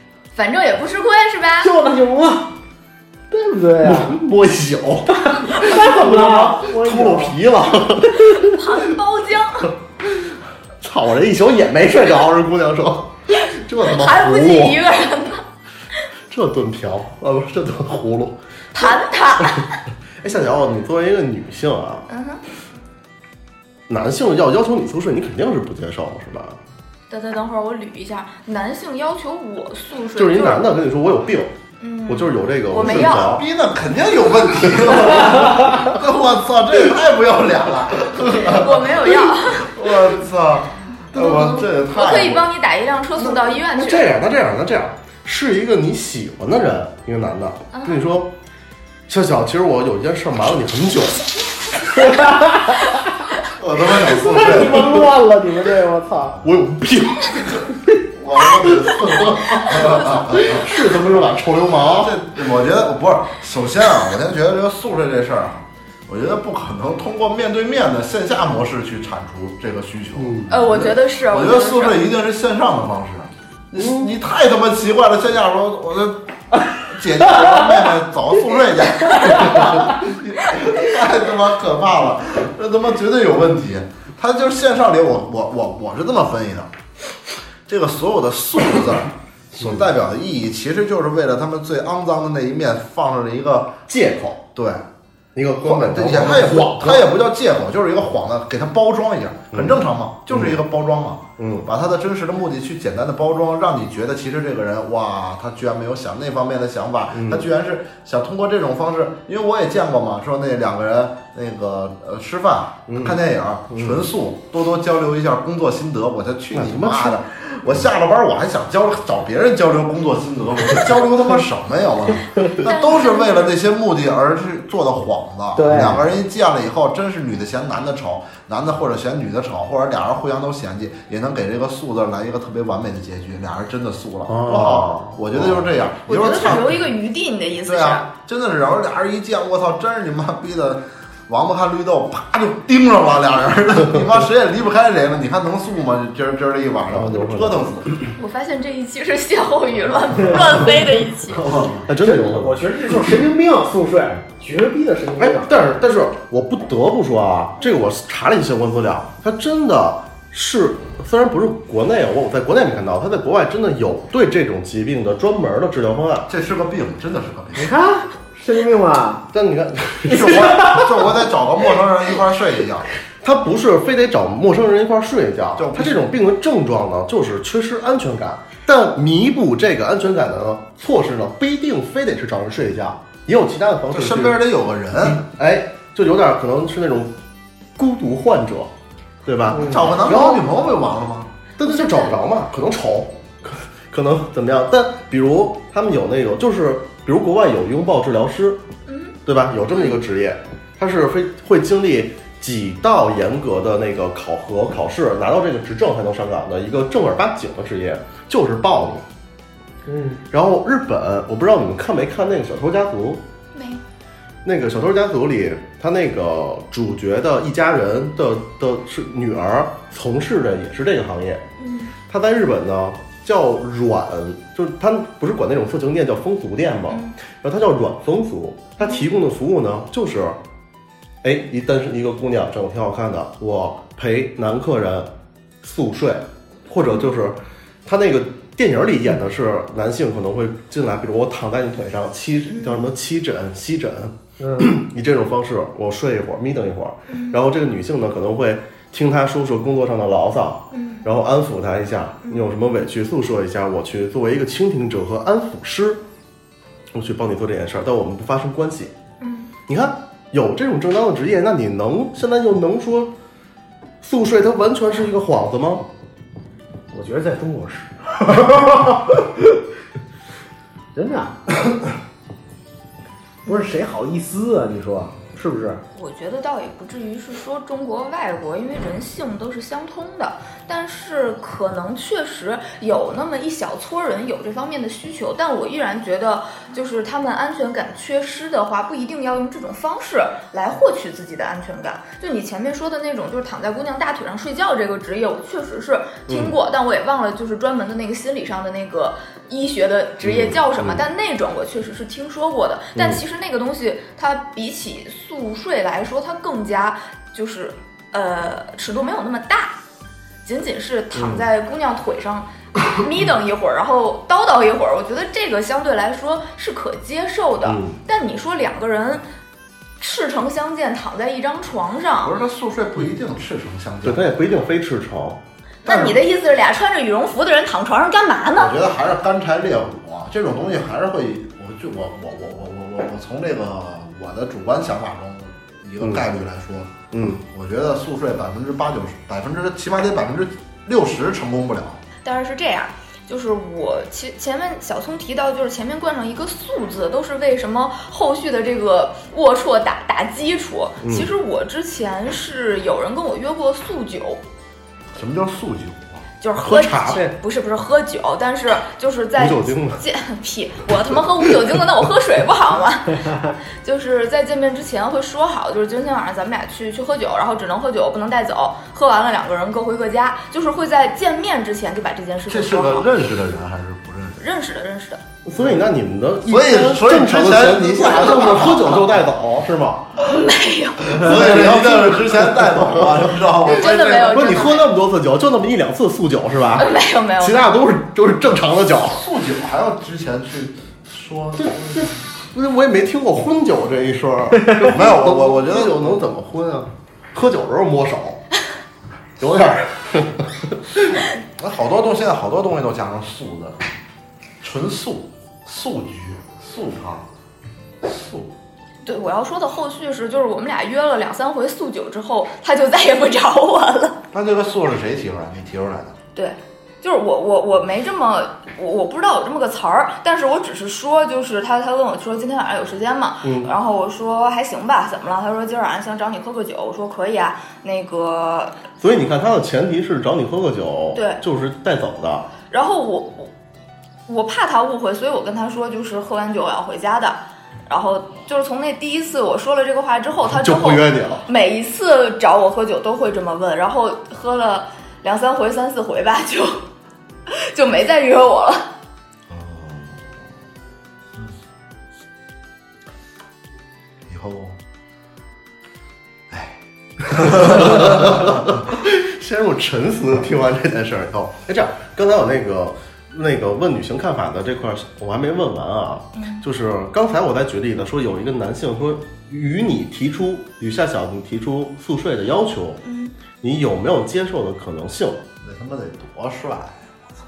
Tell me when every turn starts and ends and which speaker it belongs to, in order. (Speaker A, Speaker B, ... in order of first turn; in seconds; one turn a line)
Speaker A: 0.3-1.7
Speaker B: 1.6-2.5
Speaker B: 3.3-4.2
Speaker C: 3.8-8.9
Speaker B: 5.2-7.4
Speaker A: 8.3-9.7
Speaker C: 10.8-14.8
Speaker A: 13.8-15.4
Speaker C: 16.3-19.6
Speaker A: 18.7-19.8
Speaker C: 20.2-22.1
Speaker A: 22.1-22.4
Speaker C: 23.9-26.6
Speaker A: 27.1-30.6
Speaker C: 30.1-31.5
Speaker A: 31.8-33.4
Speaker C: 32.1-33.4
Speaker D: 32.8-42.5
Speaker A: 38.3-39.8
Speaker C: 41.1-41.6
Speaker A: 41.2-44.1
Speaker C: 43.2-48.3
Speaker A: 47.7-48.0
Speaker C: 49.1-52.0
Speaker B: 52.0-53.0
Speaker D: 53.5-55.0
Speaker B: 53.9-56.4
Speaker C: 56.4-57.7
Speaker D: 58.1-60.9
Speaker C: 58.6-62.2
Speaker D: 61.8-86.7
Speaker C: 70.2-70.8
Speaker A: 70.5-72.0
Speaker C: 73.8-74.1
Speaker D: 87.7-93.8
Speaker C: 89.6-89.8
Speaker C: 93.9-94.4
Speaker D: 94.5-94.8
Speaker C: 95.3-97.1
Speaker D: 95.6-136.8
Speaker C: 99.5-100.6
Speaker C: 101.4-101.7
Speaker C: 107.1-107.4
Speaker C: 112.9-113.2
Speaker C: 116.5-117.2
Speaker A: 122.6-123.5
Speaker B: 125.5-126.0
Speaker C: 134.3-135.7
Speaker A: 136.1-138.1
Speaker D: 137.6-148.1
Speaker C: 146.9-147.7
Speaker A: 148.2-151.6
Speaker D: 151.3-151.9
Speaker C: 151.8-153.1
Speaker B: 152.0-155.7
Speaker C: 155.2-166.3
Speaker D: 166.3-167.8
Speaker B: 167.5-169.3
Speaker C: 169.3-170.6
Speaker D: 170.0-172.9
Speaker B: 170.1-170.9
Speaker C: 173.2-184.4
Speaker D: 175.6-176.0
Speaker D: 183.9-185.2
Speaker C: 185.0-187.1
Speaker C: 187.8-188.7
Speaker C: 189.2-190.4
Speaker B: 189.5-189.9
Speaker D: 189.5-191.3
Speaker C: 191.6-198.6
Speaker A: 191.6-192.1
Speaker A: 198.9-199.1
Speaker C: 199.2-209.0
Speaker B: 209.8-210.2
Speaker C: 210.3-213.2
Speaker A: 213.5-213.8
Speaker C: 214.4-221.4
Speaker A: 221.6-221.9
Speaker C: 222.1-230.4
Speaker A: 226.9-227.2
Speaker C: 231.2-235.1
Speaker C: 235.6-256.0
Speaker A: 242.5-242.8
Speaker B: 244.4-244.7
Speaker A: 247.1-247.4
Speaker A: 250.7-251.0
Speaker A: 252.2-252.5
Speaker C: 256.9-258.9
Speaker A: 259.2-259.5
Speaker C: 259.7-263.1
Speaker C: 264.0-265.9
Speaker B: 266.9-269.6
Speaker B: 270.9-271.6
Speaker B: 273.4-275.8
Speaker A: 275.9-309.8
Speaker C: 296.3-296.6
Speaker C: 300.2-301.1
Speaker C: 302.9-303.2
Speaker A: 310.4-319.2
Speaker C: 311.1-311.4
Speaker C: 317.6-318.0
Speaker A: 320.0-322.3
Speaker D: 322.2-324.2
Speaker C: 324.0-325.4
Speaker A: 325.8-328.7
Speaker D: 325.9-326.2
Speaker D: 328.6-336.9
Speaker C: 336.0-336.2
Speaker C: 337.1-337.4
Speaker D: 337.5-342.0
Speaker A: 342.2-354.4
Speaker C: 351.0-351.3
Speaker D: 355.1-356.2
Speaker A: 356.4-373.1
Speaker C: 356.6-357.3
Speaker C: 359.4-360.0
Speaker D: 372.5-374.4
Speaker A: 374.4-375.2
Speaker C: 375.4-380.1
Speaker D: 376.4-379.1
Speaker A: 380.2-381.2
Speaker D: 381.1-384.7
Speaker C: 381.1-383.3
Speaker A: 383.6-384.9
Speaker C: 384.3-389.2
Speaker A: 386.8-387.6
Speaker D: 389.0-392.2
Speaker C: 391.6-398.4
Speaker D: 394.8-396.2
Speaker C: 399.4-401.2
Speaker D: 401.1-403.8
Speaker D: 404.6-407.3
Speaker D: 408.0-408.5
Speaker A: 409.0-414.2
Speaker D: 414.3-416.1
Speaker A: 416.3-428.8
Speaker C: 423.4-423.7
Speaker C: 429.0-432.5
Speaker A: 431.1-431.4
Speaker A: 432.7-433.5
Speaker A: 434.3-446.8
Speaker C: 440.5-441.4
Speaker A: 447.5-448.9
Speaker D: 449.5-450.4
Speaker D: 454.3-454.8
Speaker D: 456.5-458.8
Speaker C: 457.5-473.0
Speaker A: 466.3-466.6
Speaker A: 473.0-473.3
Speaker C: 473.6-475.4
Speaker D: 475.6-477.3